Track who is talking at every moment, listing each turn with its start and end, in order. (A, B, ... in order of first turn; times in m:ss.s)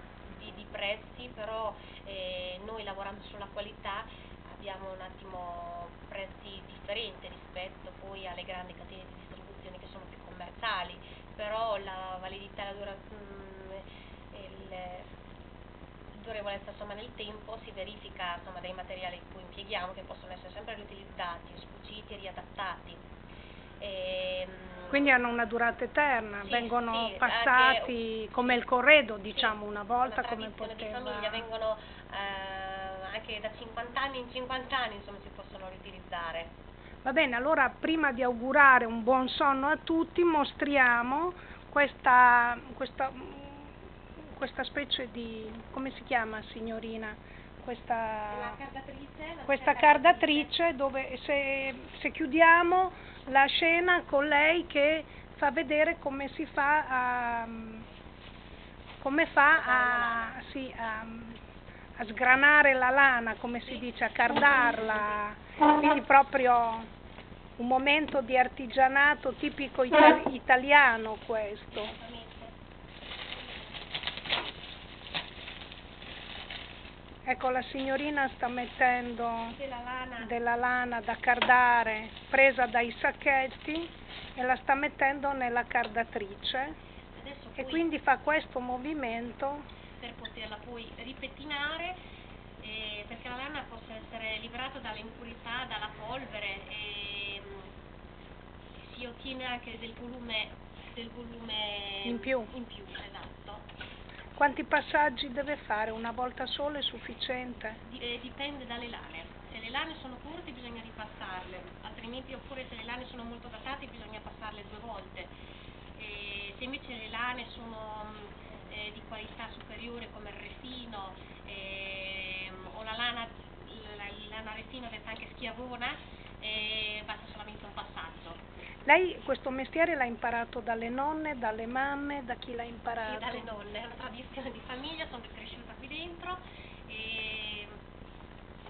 0:00.3-0:15.1 A
0:16.1-0:23.0 A
0:23.8-0:25.1 A
0:24.9-0:31.4 B
0:26.4-0:28.6 A
0:29.3-0:36.5 A
0:37.0-0:43.7 B
0:44.3-0:48.6 B
0:48.3-0:50.5 A
0:49.5-0:57.8 B
0:59.0-1:01.4 B
0:59.5-1:00.4 A
1:02.0-1:06.9 B
1:07.6-1:12.0 B
1:11.8-1:12.5 A
1:17.3-1:19.6 B
1:19.5-1:20.3 A
1:20.2-1:26.8 B
1:27.1-1:27.9 A
1:27.6-1:29.6 B
1:30.0-1:32.0 A
1:32.6-1:37.7 A
1:38.8-1:43.7 A
1:42.0-1:42.5 B
1:44.4-1:47.8 B
1:47.9-1:55.3 A
1:56.0-2:08.4 A
2:08.9-2:13.5 B
2:13.1-2:17.7 A